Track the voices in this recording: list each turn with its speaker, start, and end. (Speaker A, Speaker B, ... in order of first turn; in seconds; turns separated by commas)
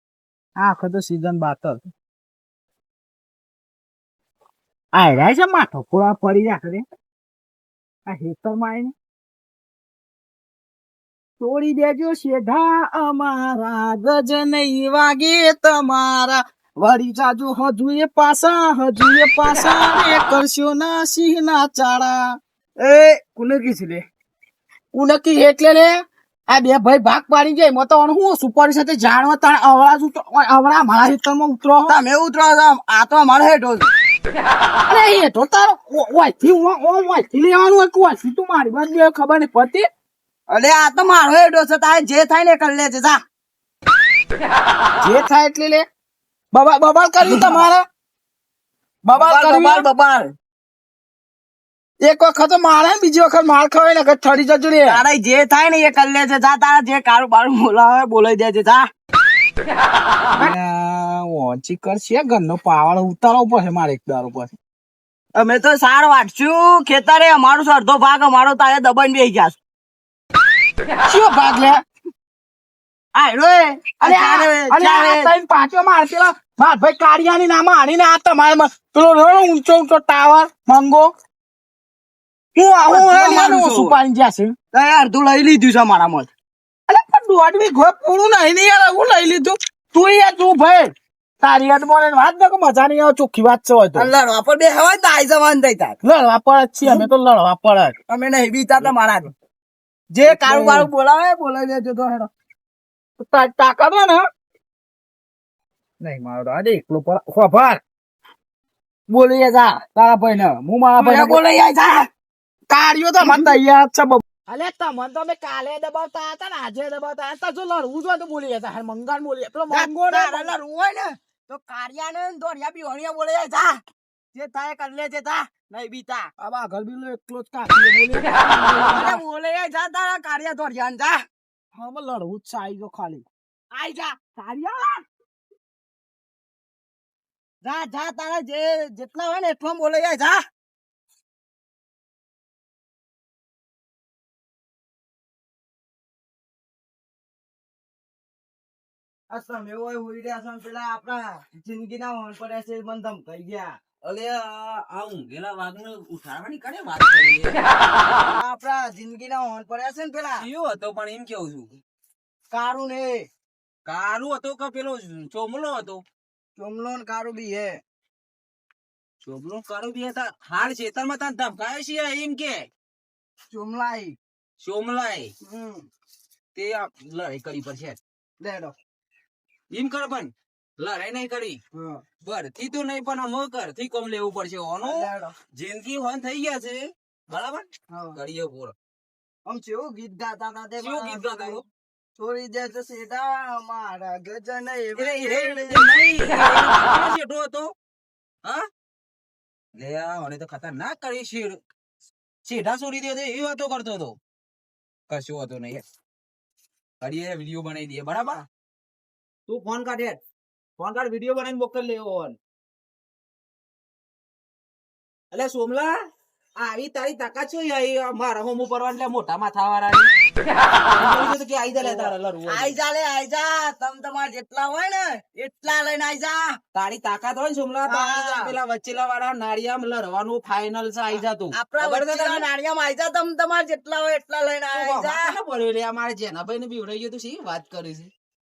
Speaker A: 0.6-1.8, Speaker A: 4.9-6.8, Speaker A: 8.1-8.9, Speaker A: 11.4-22.4, Speaker B: 22.8-24.0, Speaker A: 24.9-32.0, Speaker B: 31.9-33.9, Speaker A: 34.9-39.9, Speaker B: 40.5-43.2, Speaker A: 45.0-45.9, Speaker A: 46.5-47.9, Speaker B: 47.2-47.7, Speaker A: 49.1-49.9, Speaker B: 49.1-50.3, Speaker A: 52.0-55.0, Speaker B: 54.9-58.9, Speaker A: 60.3-64.5, Speaker B: 65.3-69.6, Speaker A: 71.0-71.8, Speaker B: 73.1-75.3, Speaker A: 74.0-81.1, Speaker A: 82.5-84.5, Speaker B: 82.8-84.0, Speaker B: 84.7-86.3, Speaker A: 86.9-94.1, Speaker B: 94.0-96.0, Speaker A: 96.0-98.0, Speaker B: 98.1-99.3, Speaker B: 100.2-102.3, Speaker A: 100.2-100.9, Speaker A: 103.2-104.3, Speaker A: 106.0-107.8, Speaker A: 109.1-111.4, Speaker B: 111.0-112.1, Speaker A: 112.7-120.5, Speaker B: 113.2-113.6, Speaker B: 119.7-123.8, Speaker B: 124.3-126.3, Speaker A: 126.4-129.2, Speaker B: 128.9-131.3, Speaker A: 131.7-133.3, Speaker B: 133.7-134.2, Speaker A: 134.3-135.0, Speaker B: 137.6-140.4, Speaker B: 149.3-154.0, Speaker C: 154.0-157.6, Speaker B: 158.3-160.5, Speaker C: 160.4-161.8, Speaker B: 162.5-163.3, Speaker C: 163.9-166.0, Speaker B: 166.6-167.8, Speaker C: 169.2-172.7, Speaker B: 173.5-174.2, Speaker C: 174.6-175.3, Speaker B: 175.4-175.9, Speaker C: 176.6-178.0, Speaker B: 178.4-178.8, Speaker C: 179.7-181.6, Speaker B: 181.7-182.0, Speaker C: 182.2-188.8, Speaker B: 184.8-185.3, Speaker B: 187.9-188.2, Speaker B: 189.5-191.6, Speaker C: 190.8-191.7, Speaker B: 192.2-195.9, Speaker C: 194.9-197.7, Speaker C: 199.8-201.6, Speaker C: 202.4-204.2, Speaker C: 205.1-205.8, Speaker C: 207.0-208.4, Speaker C: 209.5-210.2, Speaker C: 210.8-212.4, Speaker C: 215.3-215.9, Speaker C: 216.6-220.1, Speaker C: 220.8-222.8, Speaker B: 221.8-226.6, Speaker C: 226.7-232.5, Speaker B: 227.8-228.6, Speaker B: 231.1-235.4, Speaker C: 234.7-238.1